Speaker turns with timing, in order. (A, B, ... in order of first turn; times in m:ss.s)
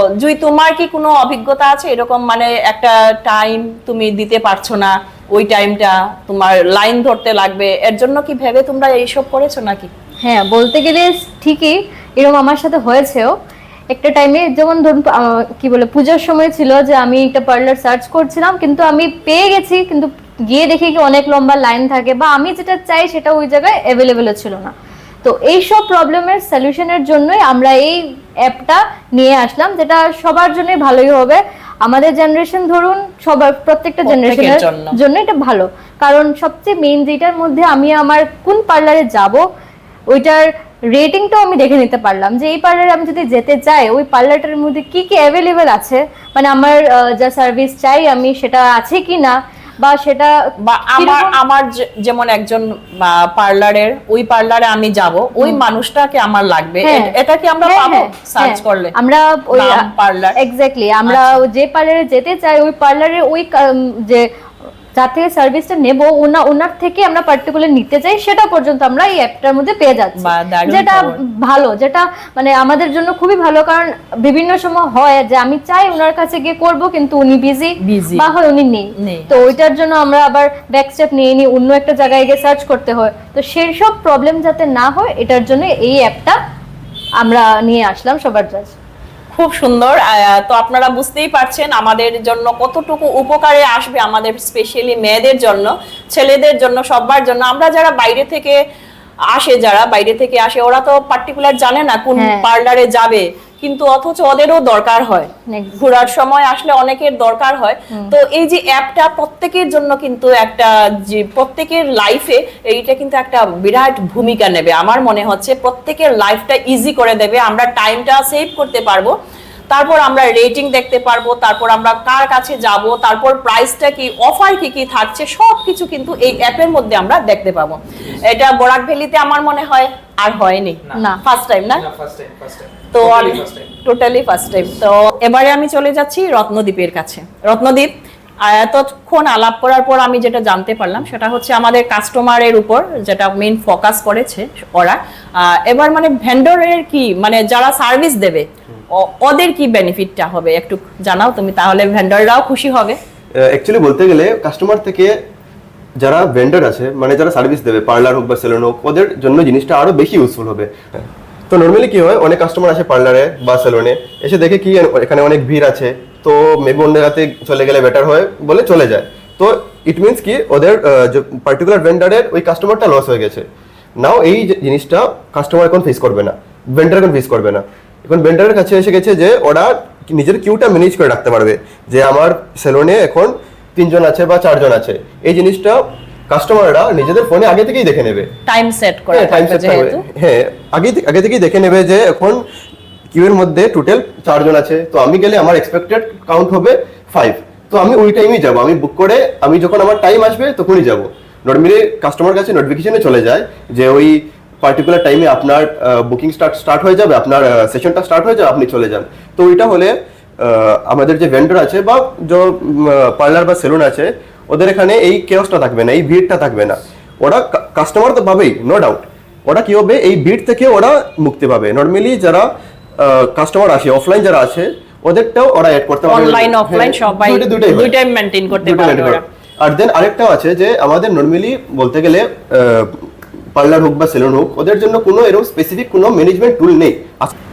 0:00.2-0:09.9 A
0:10.2-0:13.3 B
0:13.9-0:39.4 B
0:34.0-0:35.0 A
0:40.1-0:50.3 B
0:50.6-0:58.9 A
0:50.9-0:51.3 B
0:56.8-0:57.1 B
0:57.6-1:04.3 B
0:59.5-1:00.4 A
1:01.1-1:01.4 A
1:04.9-1:26.4 B
1:10.2-1:11.2 A
1:17.8-1:18.2 A
1:19.0-1:19.6 A
1:27.2-1:28.7 B
1:29.3-1:38.6 A
1:39.3-1:59.1 A
1:42.1-1:42.4 B
1:45.5-1:45.9 B
1:59.7-2:11.8 A
2:10.9-2:11.2 B
2:11.7-2:13.7 C
2:12.9-2:17.9 A
2:18.4-2:33.0 A
2:33.4-2:35.1 D
2:36.0-2:53.5 D
2:54.0-3:08.3 D
3:08.5-3:10.0 A
3:09.1-3:12.4 D
3:13.1-3:42.5 D
3:43.0-3:47.9 D
3:46.0-3:49.2 A
3:48.6-3:53.0 D
3:53.5-3:57.3 D